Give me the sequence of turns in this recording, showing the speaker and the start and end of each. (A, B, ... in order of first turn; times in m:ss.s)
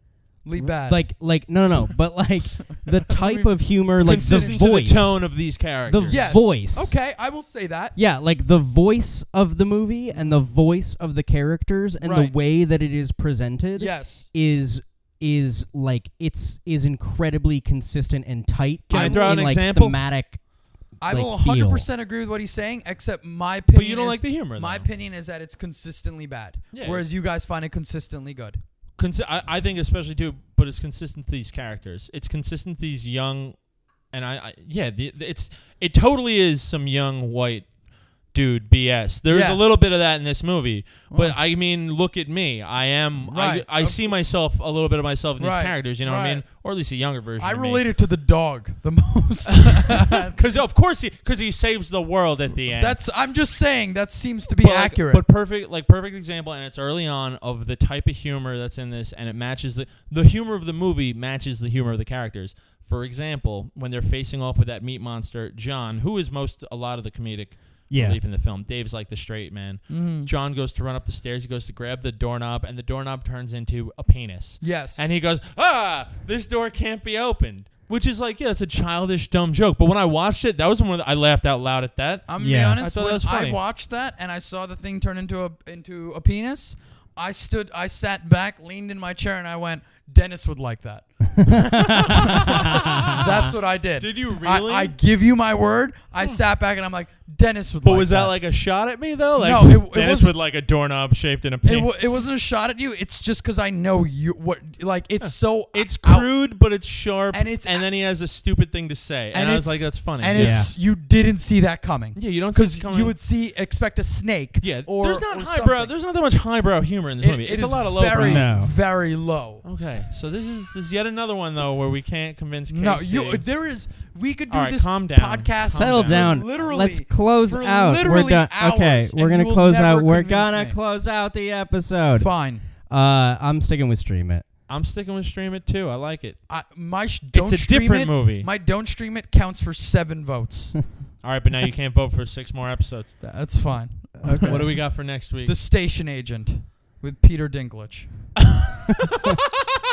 0:00.4-0:01.0 A
0:00.6-0:05.2 B
0:03.1-0:04.6 A
0:04.0-0:06.4 C
0:05.9-0:07.0 B
0:06.1-0:08.0 A
0:08.0-0:20.4 B
0:10.1-0:10.4 A
0:12.0-0:12.4 A
0:13.8-0:14.3 A
0:18.9-0:20.0 C
0:18.9-0:19.3 A
0:21.0-0:28.6 A
0:21.0-0:21.9 B
0:23.7-0:24.9 C
0:26.7-0:27.0 C
0:29.0-0:33.6 C
0:34.1-0:37.7 C
0:38.3-0:47.8 C
0:39.3-0:39.6 A
0:41.1-0:41.4 A
0:43.3-0:44.1 A
0:45.4-0:46.4 A
0:47.4-0:50.4 A
0:49.5-0:53.0 C
0:52.7-0:55.2 A
0:54.6-1:23.6 C
1:07.9-1:08.2 B
1:09.9-1:10.3 A
1:14.6-1:15.1 A
1:22.3-1:38.4 A
1:22.4-1:22.8 B
1:31.4-1:33.2 B
1:31.9-1:35.0 C
1:37.8-1:42.3 C
1:39.4-1:40.3 A
1:41.6-1:46.3 A
1:45.2-1:50.7 C
1:47.3-1:47.9 A
1:49.3-1:55.9 A
1:50.4-1:50.7 B
1:52.2-1:53.2 C
1:54.6-1:58.5 C
1:57.2-1:59.6 A
1:58.2-1:58.7 B
1:59.6-2:03.4 C
2:02.7-2:10.8 A
2:04.5-2:06.4 C
2:05.7-2:12.3 B
2:12.2-2:12.6 A
2:12.9-2:14.4 B
2:14.7-2:16.4 C
2:16.5-2:20.8 A
2:17.3-2:18.5 C
2:21.2-2:23.2 C
2:23.2-2:24.8 A
2:24.2-2:24.6 B
2:24.4-2:25.6 C
2:25.4-2:28.3 A
2:28.4-2:29.4 C